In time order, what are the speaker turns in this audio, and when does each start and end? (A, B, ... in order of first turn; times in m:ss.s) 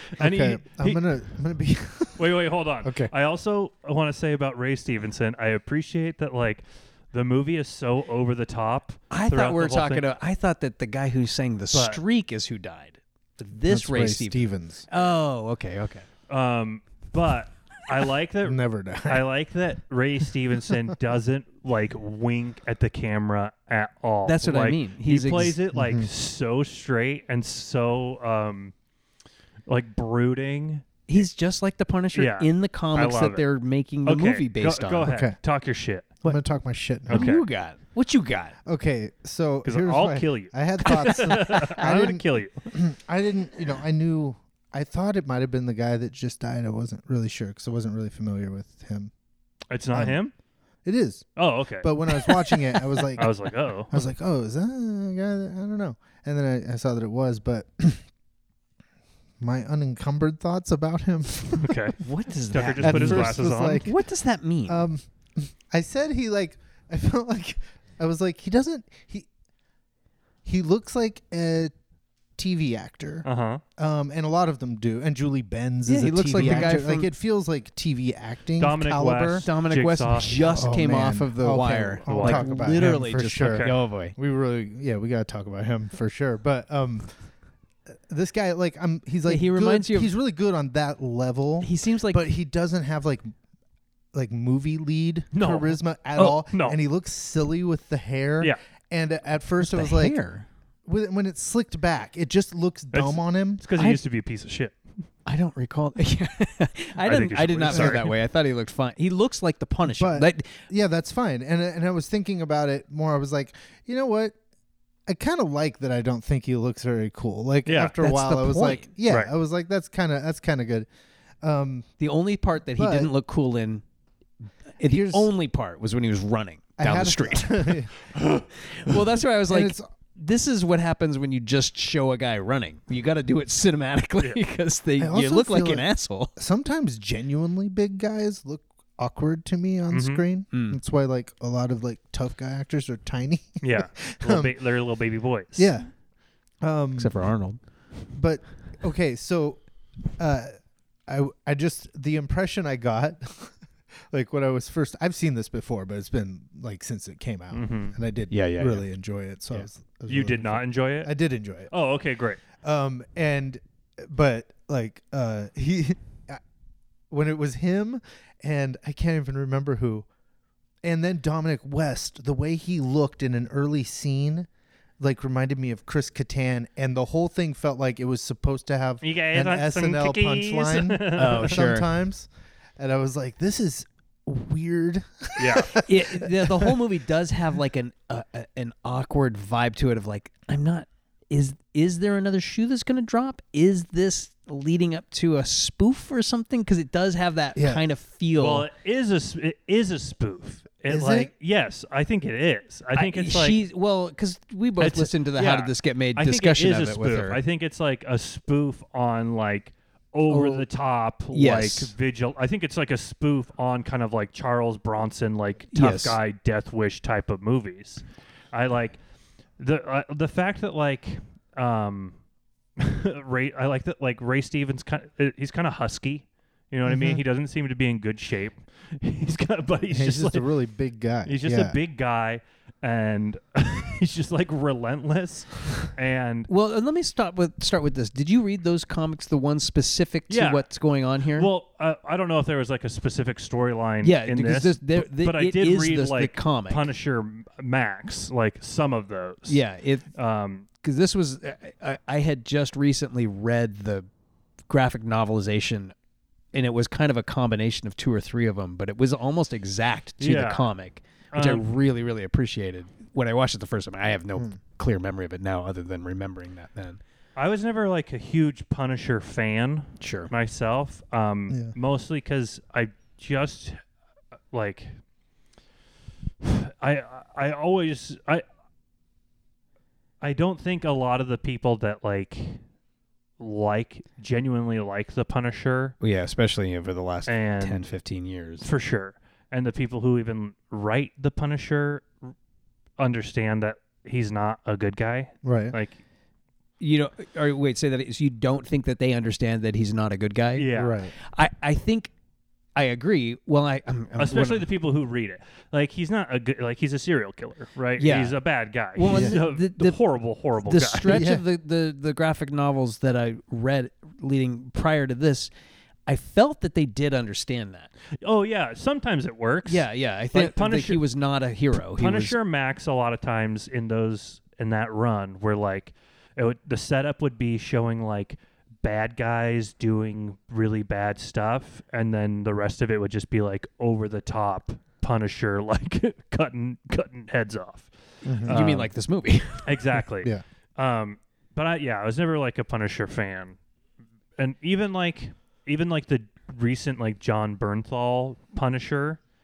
0:00.2-0:01.1 A
0:00.2-0:03.1 B
0:02.2-0:10.1 A
0:09.1-0:16.1 C
0:11.7-0:12.0 A
0:13.7-0:14.9 B
0:16.3-0:28.7 A
0:18.4-0:19.2 B
0:24.2-0:25.6 C
0:25.7-0:26.1 B
0:29.7-0:30.9 A
0:31.1-0:35.1 C
0:32.1-0:33.4 A
0:34.0-0:36.2 A
0:35.0-0:35.4 B
0:36.2-0:37.3 B
0:37.1-0:38.5 C
0:37.1-0:37.4 A
0:38.6-0:49.1 B
0:39.6-0:42.7 A
0:40.8-0:41.7 C
0:49.7-0:50.3 A
0:49.9-0:50.2 B
0:50.8-0:51.3 B
0:51.4-0:54.0 A
0:51.8-0:58.0 B
0:59.4-1:01.9 B
1:01.6-1:03.9 A
1:02.0-1:04.8 C
1:02.8-1:04.0 B
1:04.7-1:09.3 B
1:10.4-1:11.7 B
1:12.4-1:19.4 B
1:13.2-1:13.6 A
1:15.9-1:17.1 C
1:16.4-1:16.7 A
1:18.6-1:20.7 A
1:19.4-1:24.1 C
1:20.5-1:27.1 B
1:22.1-1:23.8 A
1:28.1-1:33.3 B
1:29.3-1:30.1 C
1:31.6-1:32.2 C
1:34.1-1:40.2 B
1:35.3-1:36.8 A
1:39.6-1:40.4 C
1:40.8-1:43.6 B
1:42.9-1:44.8 A
1:43.8-1:44.0 C
1:45.2-1:50.6 C
1:47.0-1:48.1 A
1:47.7-1:48.0 B
1:49.8-1:54.4 B
1:55.1-2:00.9 B
1:57.6-1:58.0 A
1:58.0-1:58.9 C
2:01.4-2:01.9 B
2:02.0-2:03.8 C
2:02.8-2:03.1 B
2:04.8-2:16.4 C
2:04.8-2:05.3 B
2:06.8-2:08.1 B
2:08.9-2:09.9 B
2:15.0-2:24.5 B
2:19.9-2:20.2 A
2:20.5-2:20.8 C
2:23.6-2:25.8 A
2:25.6-2:25.9 B
2:26.6-2:27.1 B
2:27.0-2:27.6 C
2:28.1-2:29.6 B
2:30.2-2:30.5 B
2:31.1-2:33.6 B
2:34.1-2:41.7 B
2:37.5-2:38.0 A
2:38.3-2:38.8 C
2:40.1-2:41.1 A
2:41.7-2:42.4 A
2:42.6-2:46.4 B
2:47.1-2:50.0 B
2:50.8-2:54.5 B
2:55.0-3:06.8 B
2:59.0-3:01.6 A
3:01.1-3:01.9 C
3:05.4-3:05.7 A
3:05.8-3:18.7 C
3:17.6-3:17.8 B
3:18.4-3:23.6 A
3:20.9-3:21.3 B
3:22.9-3:27.4 C
3:24.8-3:39.0 A
3:30.3-3:30.6 C
3:31.3-3:31.9 C
3:35.7-3:36.2 C
3:39.6-3:42.2 A
3:42.8-3:50.5 A
3:46.8-3:47.2 B
3:49.9-3:51.8 B
3:51.2-3:56.5 A
3:56.5-4:01.5 C
4:00.3-4:00.7 A
4:01.3-4:09.6 A
4:04.0-4:06.8 C
4:09.5-4:10.1 C
4:10.1-4:10.6 A
4:10.8-4:14.1 C
4:14.7-4:15.9 C
4:16.5-4:27.0 C
4:20.2-4:20.7 A
4:21.3-4:21.6 A
4:27.4-4:33.8 A
4:30.0-4:30.3 C
4:34.5-4:35.0 A
4:36.4-4:38.4 A
4:40.2-4:42.6 A
4:43.4-4:46.0 A
4:46.0-4:48.6 C
4:47.3-4:47.9 A
4:48.6-4:52.1 A
4:53.0-4:56.0 A
4:55.4-4:55.7 B
4:56.8-5:02.1 C
5:00.6-5:01.0 A
5:00.7-5:01.1 B
5:02.7-5:04.6 C
5:04.2-5:11.2 A
5:08.0-5:08.4 C
5:08.9-5:10.0 C
5:09.1-5:09.4 B
5:10.6-5:15.5 C
5:11.1-5:11.4 B
5:16.1-5:17.9 C
5:18.2-5:21.0 A
5:19.6-5:22.4 C
5:21.8-5:38.9 A
5:38.2-5:38.8 B
5:38.5-5:39.7 C
5:39.6-5:43.6 A
5:44.4-5:49.2 A